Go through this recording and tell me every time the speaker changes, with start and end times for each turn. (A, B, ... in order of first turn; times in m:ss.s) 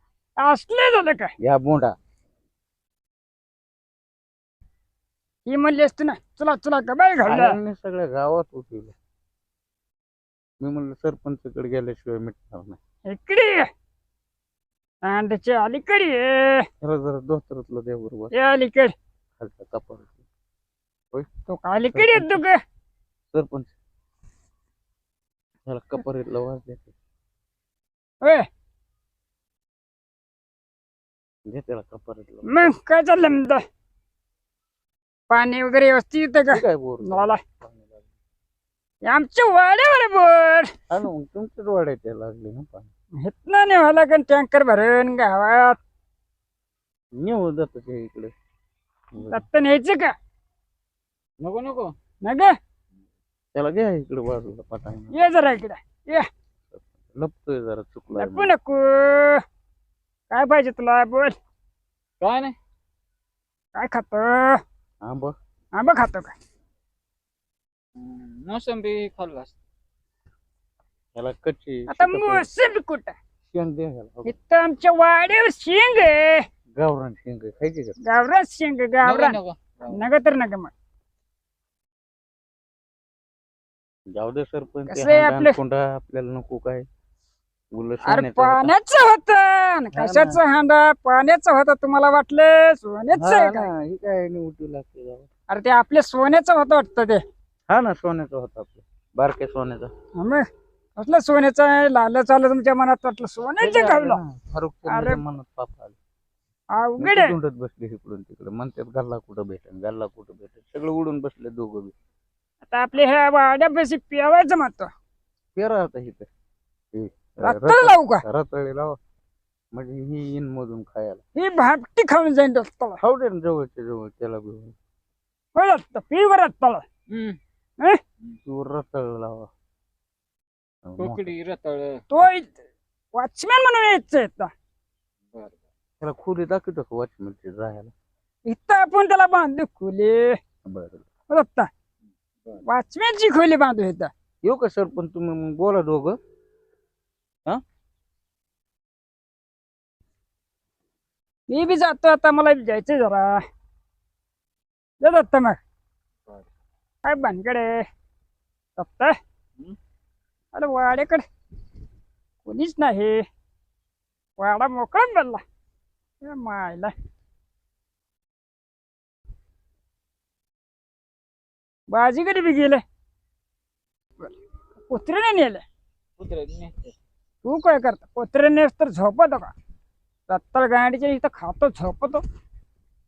0:00.4-0:01.3 A
0:01.4-0:01.9 B
0:05.5-0:07.6 A
0:07.2-0:09.0 B
0:10.6-0:12.8 B
0:13.1-0:13.7 A
0:15.0-0:16.6 A
0:16.8-0:18.3 B
0:18.3-0:18.9 A
0:19.4-0:20.2 B
0:21.5-0:22.6 A
0:21.9-0:22.4 B
0:23.3-0:23.8 B
0:25.7-0:26.9 B
0:28.2-0:28.5 A
0:31.5-0:33.4 B
0:32.5-0:33.6 A
0:35.3-0:37.4 A
0:36.5-0:38.0 B
0:39.1-0:40.7 A
0:40.9-0:42.9 B
0:43.2-0:45.8 A
0:47.2-0:48.3 B
0:49.1-0:49.4 B
0:49.3-0:50.2 A
0:51.4-0:51.9 C
0:52.2-0:52.5 A
0:53.6-0:55.3 B
0:55.1-0:56.3 A
0:56.7-0:58.5 B
0:58.2-0:59.4 A
1:00.3-1:01.4 A
1:02.2-1:02.6 C
1:03.8-1:04.6 A
1:05.0-1:05.4 B
1:05.8-1:06.3 A
1:08.0-1:09.6 C
1:11.2-1:12.5 B
1:11.9-1:13.2 A
1:13.4-1:14.4 B
1:14.2-1:16.4 A
1:16.8-1:18.0 B
1:18.0-1:20.7 A
1:19.0-1:20.0 C
1:24.1-1:26.9 B
1:24.9-1:25.6 A
1:27.7-1:28.7 B
1:28.0-1:33.7 A
1:29.9-1:30.4 B
1:33.1-1:35.3 B
1:35.5-1:37.2 A
1:37.7-1:39.9 B
1:40.2-1:44.2 A
1:43.6-1:46.0 B
1:44.9-1:45.2 A
1:46.8-1:47.4 A
1:47.0-1:51.9 B
1:52.6-1:54.9 A
1:55.6-1:56.3 B
1:56.9-1:59.0 B
1:57.4-1:58.2 A
1:59.7-2:01.2 B
2:01.4-2:03.0 A
2:03.0-2:04.8 B
2:05.6-2:06.8 A
2:07.1-2:07.4 C
2:08.4-2:09.5 B
2:10.8-2:11.3 B
2:11.0-2:12.0 C
2:12.1-2:12.6 A
2:13.1-2:14.5 A
2:15.3-2:15.6 C
2:16.0-2:17.9 B
2:18.5-2:20.4 A
2:20.7-2:21.0 B
2:21.3-2:21.7 A
2:22.6-2:24.1 A
2:24.4-2:26.2 B
2:31.5-2:33.4 A
2:35.0-2:35.6 A
2:37.0-2:37.8 A
2:38.8-2:39.2 A
2:40.5-2:41.2 A
2:42.4-2:43.3 A
2:44.4-2:45.4 A
2:46.2-2:46.9 A
2:51.9-2:52.8 A
2:54.9-2:55.6 A
2:56.2-2:57.0 C
2:57.4-2:59.5 A
3:00.3-3:02.2 A